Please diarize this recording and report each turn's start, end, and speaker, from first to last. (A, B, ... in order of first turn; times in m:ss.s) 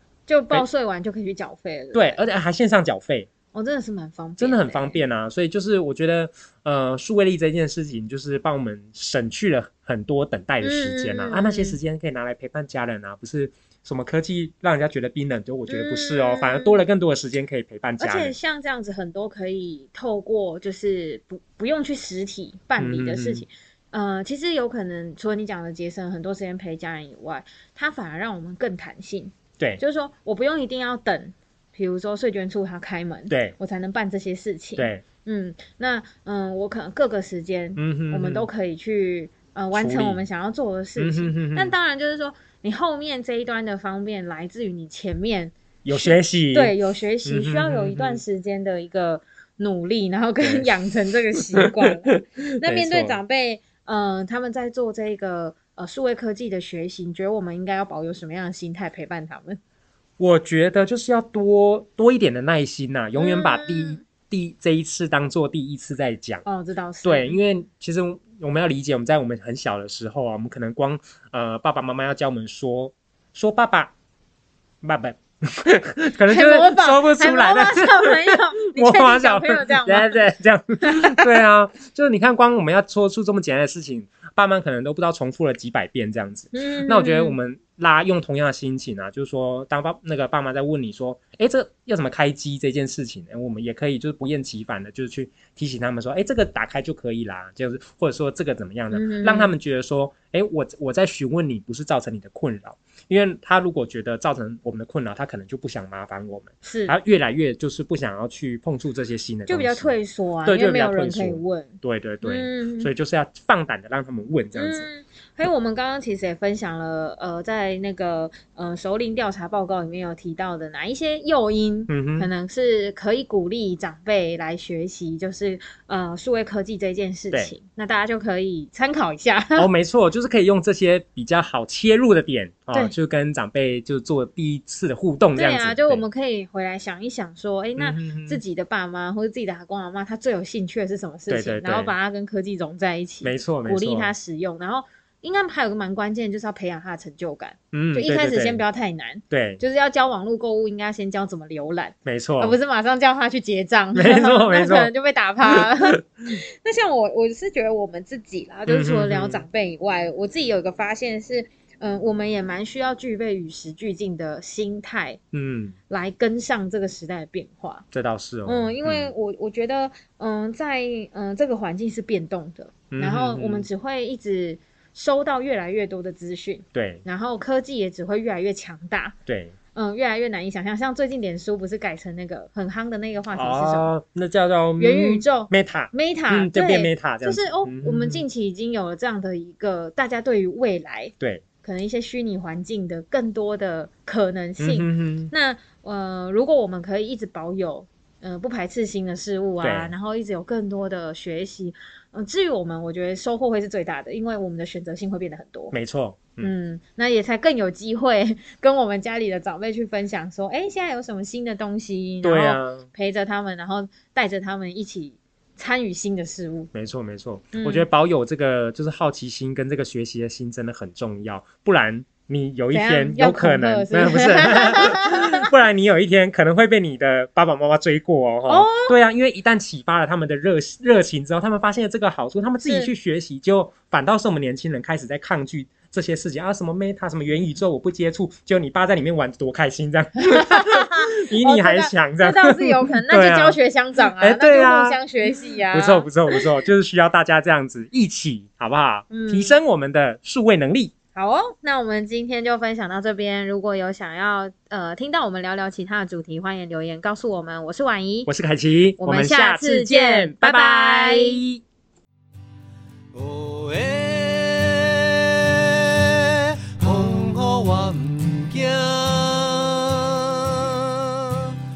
0:00.3-0:02.2 A
0:01.9-0:03.3 B
0:03.5-0:05.0 A
0:04.4-0:18.3 B
0:10.6-0:11.8 A
0:15.7-0:16.8 A
0:18.0-0:59.6 A
0:22.8-0:23.4 B
0:33.3-0:33.6 B
0:34.8-0:35.0 B
0:37.8-0:38.5 B
0:39.7-0:40.2 B
0:41.0-0:41.7 B
0:45.8-0:46.7 B
0:47.2-0:48.2 B
0:50.4-0:50.7 B
0:51.4-0:53.2 B
1:00.2-1:06.4 B
1:03.2-1:04.0 A
1:06.4-1:07.4 A
1:07.0-1:13.9 B
1:14.8-1:49.9 B
1:16.3-1:20.2 A
1:20.8-1:21.3 A
1:26.5-1:27.4 A
1:38.9-1:39.5 A
1:46.6-1:46.9 A
1:49.5-1:52.9 A
1:50.4-1:54.8 B
1:54.5-2:09.7 A
2:01.9-2:02.3 B
2:09.6-2:16.0 B
2:15.3-2:45.2 A
2:17.8-2:18.4 B
2:21.3-2:21.9 B
2:23.2-2:24.1 B
2:27.7-2:28.6 B
2:29.3-2:29.6 B
2:32.0-2:32.6 B
2:33.9-2:34.9 B
2:38.7-2:39.4 B
2:45.3-2:45.8 B
2:45.9-2:47.8 A
2:47.9-2:49.1 B
2:48.4-2:59.1 A
2:52.9-2:53.7 B
2:56.7-2:57.0 B
2:59.2-2:59.6 B
2:59.7-3:03.9 A
3:03.3-3:08.2 B
3:04.8-3:25.7 A
3:14.6-3:15.3 B
3:19.6-3:19.9 B
3:25.7-3:26.5 B
3:26.4-3:36.7 A
3:32.2-3:32.9 B
3:36.7-4:03.6 B
3:37.5-3:37.8 A
3:42.7-3:45.4 A
3:48.5-3:48.9 A
3:52.6-3:52.9 A
4:00.2-4:06.4 A
4:04.2-4:05.0 B
4:05.7-4:10.9 B
4:09.1-4:09.5 A
4:11.1-4:18.3 A
4:18.2-4:21.6 B
4:19.0-4:21.4 A
4:23.1-4:31.5 C